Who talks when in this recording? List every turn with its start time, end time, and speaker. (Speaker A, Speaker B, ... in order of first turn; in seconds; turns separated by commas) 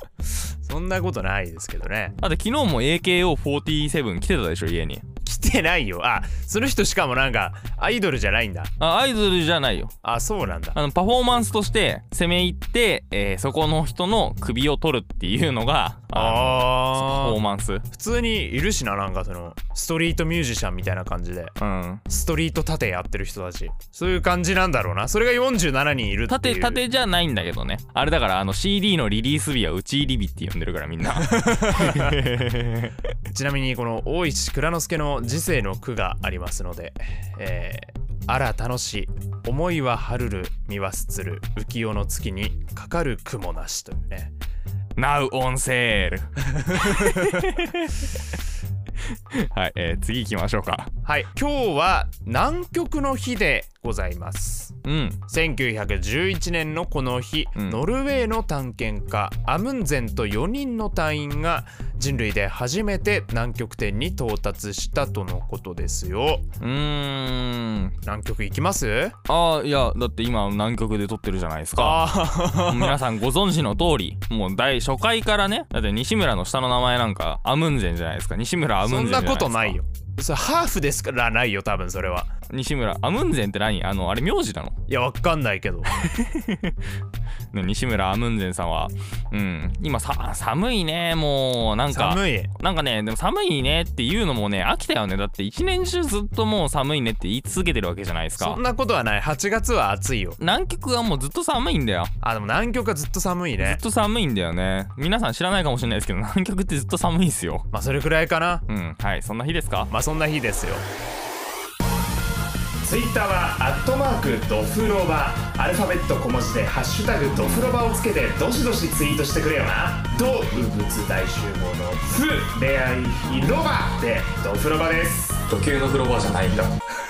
Speaker A: 0.6-2.2, Speaker B: 2.2-5.0, Speaker A: 5.2-8.7, Speaker B: 8.8-9.9, Speaker A: 10.0-10.8, Speaker B: 10.7-17.9, Speaker A: 16.1-17.4, Speaker A: 17.9-21.6, Speaker B: 21.6-22.0, Speaker A: 22.1-26.8, Speaker B: 26.3-33.0, Speaker A: 31.2-32.2, Speaker A: 33.3-44.3, Speaker B: 45.0-48.2, Speaker A: 46.6-47.6, Speaker B: 49.3-50.9, Speaker A: 51.0-66.5, Speaker B: 54.8-55.2, Speaker B: 57.6-57.8, Speaker B: 66.6-68.0, Speaker A: 68.0-69.2, Speaker B: 69.3-79.8, Speaker A: 71.8-73.0, Speaker A: 78.8-82.3, Speaker B: 82.5-84.8, Speaker A: 84.9-86.0, Speaker B: 85.9-86.8, Speaker B: 87.5-98.6, Speaker A: 91.9-92.5, Speaker A: 98.4-100.4, Speaker B: 100.4-102.1, Speaker A: 102.2-103.8, Speaker B: 103.6-107.7, Speaker A: 107.7-108.6, Speaker B: 108.7-109.9, Speaker A: 109.9-110.9, Speaker A: 112.8-125.4, Speaker B: 125.5-126.7